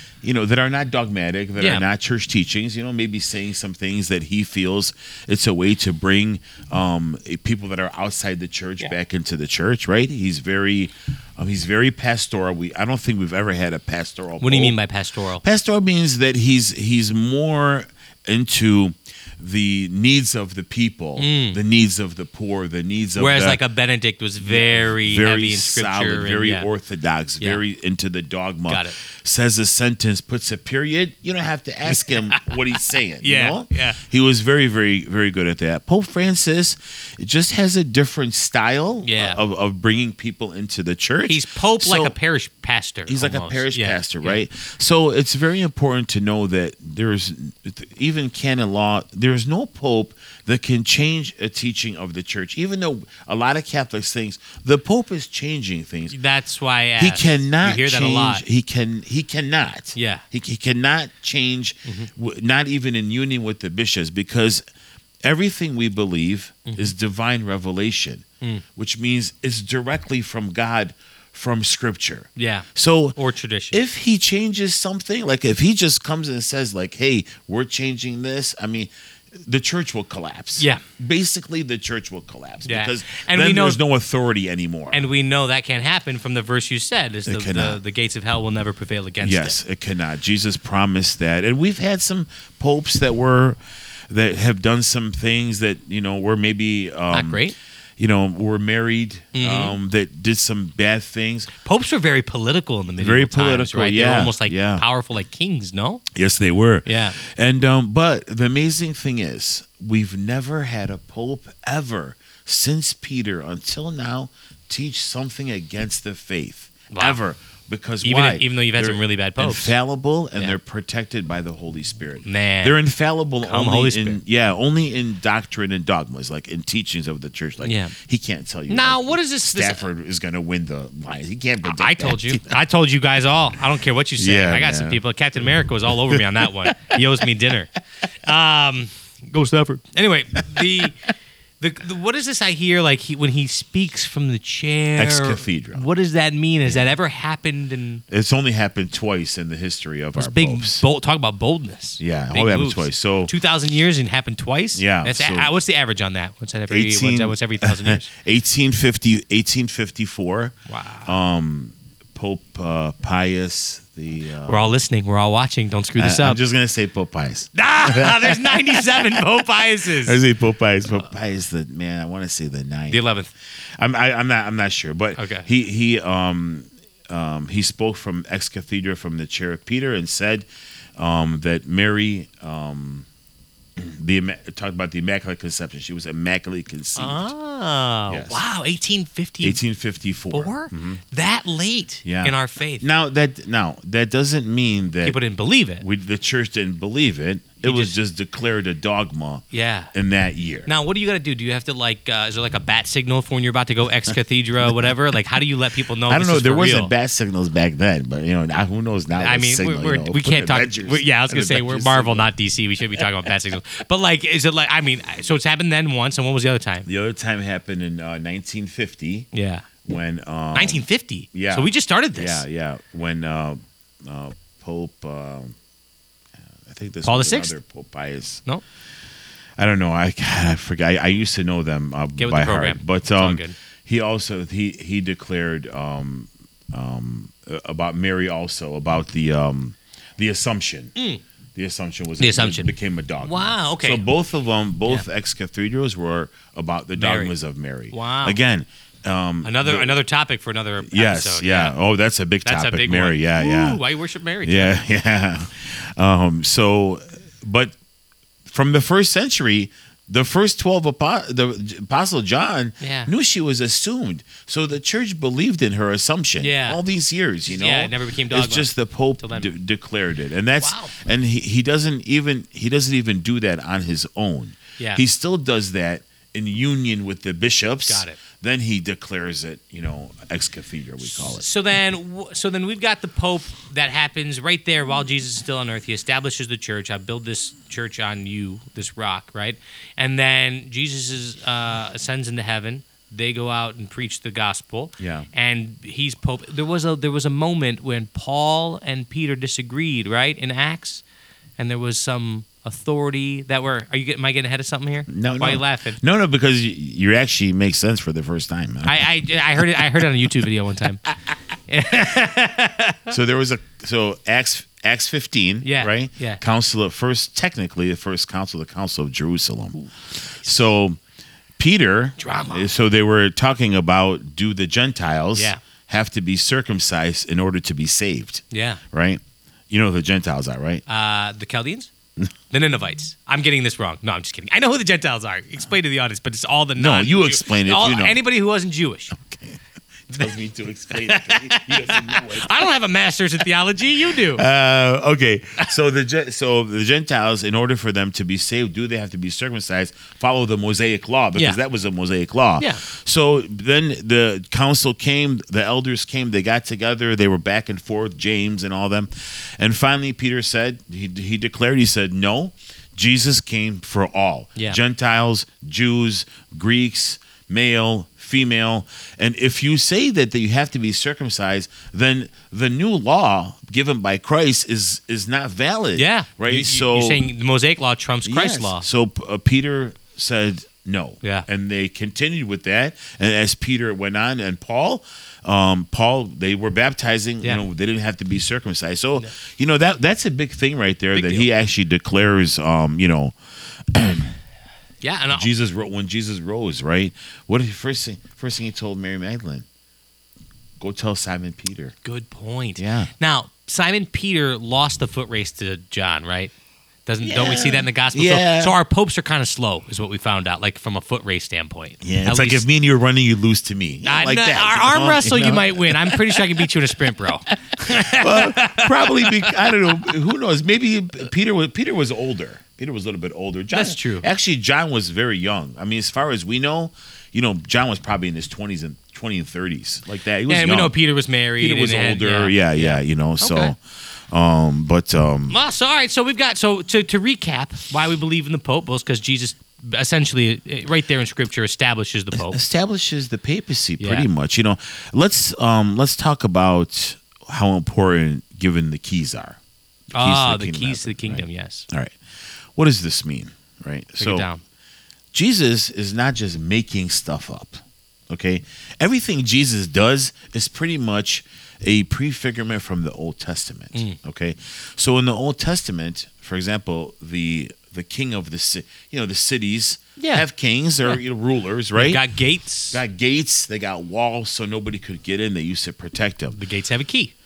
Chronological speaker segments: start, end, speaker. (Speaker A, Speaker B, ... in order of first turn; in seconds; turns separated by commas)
Speaker A: 0.2-14.8, Speaker B: 1.6-1.8, Speaker B: 14.4-15.4, Speaker A: 15.4-23.6, Speaker B: 21.2-21.6, Speaker B: 23.1-26.7, Speaker A: 24.4-42.1, Speaker B: 28.7-28.9, Speaker B: 31.9-34.0, Speaker B: 39.0-39.4, Speaker B: 41.2-44.4, Speaker A: 43.1-56.1, Speaker B: 56.1-58.4, Speaker A: 57.0-64.6, Speaker B: 59.9-60.2, Speaker A: 65.2-73.2, Speaker B: 66.6-66.9, Speaker B: 72.3-73.8, Speaker A: 73.7-85.0, Speaker B: 82.7-83.8, Speaker B: 84.9-89.5, Speaker A: 87.3-87.8, Speaker A: 89.2-101.5, Speaker B: 97.1-97.5, Speaker B: 99.3-99.8, Speaker B: 101.5-106.0, Speaker A: 103.0-104.8, Speaker A: 106.1-132.5, Speaker B: 106.8-107.2, Speaker B: 116.9-117.2, Speaker B: 118.0-119.7, Speaker B: 122.2-122.8, Speaker B: 123.4-124.2, Speaker B: 127.6-127.9, Speaker B: 128.7-129.8, Speaker B: 131.6-141.0, Speaker A: 134.2-135.0, Speaker A: 135.9-137.3, Speaker A: 140.5-140.8, Speaker B: 141.6-148.0, Speaker A: 145.0-145.9, Speaker A: 146.7-146.9, Speaker A: 148.1-150.8, Speaker B: 150.2-158.1, Speaker A: 152.0-153.3, Speaker A: 154.7-155.5, Speaker A: 156.7-164.7, Speaker B: 160.7-161.2, Speaker B: 164.4-166.4, Speaker A: 166.0-173.0, Speaker B: 167.5-170.2, Speaker B: 172.9-173.3, Speaker A: 173.6-180.4, Speaker B: 175.2-175.5, Speaker A: 181.0-183.1, Speaker A: 183.8-187.3, Speaker B: 186.9-189.6, Speaker A: 188.1-188.4, Speaker A: 189.4-191.0, Speaker B: 190.3-192.8, Speaker A: 192.0-195.2, Speaker B: 195.0-195.8, Speaker A: 195.8-200.7, Speaker B: 197.6-197.9, Speaker B: 199.5-199.9, Speaker B: 200.7-206.9, Speaker A: 206.1-212.3, Speaker B: 209.2-216.9, Speaker A: 216.8-219.3, Speaker B: 219.3-219.7, Speaker A: 219.8-225.5, Speaker B: 220.5-222.4, Speaker A: 226.6-228.4, Speaker B: 227.0-227.5, Speaker A: 229.6-240.9, Speaker B: 232.2-233.5, Speaker B: 240.9-241.2, Speaker A: 241.5-250.0, Speaker B: 242.2-242.7, Speaker B: 243.2-244.1, Speaker B: 246.9-247.3, Speaker B: 247.9-248.4, Speaker B: 249.4-251.7, Speaker A: 250.8-253.8, Speaker B: 252.4-254.8, Speaker A: 254.4-257.8, Speaker A: 258.4-281.4, Speaker B: 262.8-263.1, Speaker B: 266.4-266.8, Speaker B: 267.5-269.5, Speaker B: 270.6-270.9, Speaker B: 277.9-278.2, Speaker B: 281.0-301.0, Speaker A: 295.0-295.3, Speaker B: 301.6-306.0, Speaker A: 305.1-310.0, Speaker B: 308.8-311.1, Speaker B: 311.7-313.1, Speaker A: 313.1-321.0, Speaker B: 315.6-316.4, Speaker A: 321.6-330.8, Speaker B: 322.2-322.7, Speaker B: 325.3-325.6, Speaker B: 328.5-328.8, Speaker B: 330.9-331.9, Speaker B: 332.5-339.2, Speaker A: 336.8-338.2, Speaker A: 339.2-339.6, Speaker A: 340.1-342.7, Speaker B: 340.9-344.4, Speaker A: 344.1-377.3, Speaker B: 375.9-378.8, Speaker A: 378.2-393.4, Speaker B: 391.1-391.5, Speaker A: 393.9-394.3, Speaker B: 395.0-395.5, Speaker A: 395.3-399.6, Speaker A: 400.8-401.9, Speaker B: 402.0-406.5, Speaker A: 402.8-403.1, Speaker B: 407.1-412.6, Speaker A: 407.2-408.8, Speaker A: 412.0-416.7, Speaker B: 414.0-420.0, Speaker A: 417.8-430.9, Speaker B: 423.7-424.3, Speaker B: 430.5-433.7, Speaker A: 431.6-435.6, Speaker B: 435.5-442.6, Speaker A: 442.3-449.6, Speaker B: 444.0-444.3, Speaker B: 450.1-451.9, Speaker A: 450.2-452.2, Speaker A: 452.7-454.5, Speaker B: 454.2-454.6, Speaker A: 455.3-472.2, Speaker B: 470.2-470.4, Speaker B: 471.9-473.0, Speaker A: 472.9-476.6, Speaker B: 476.5-477.3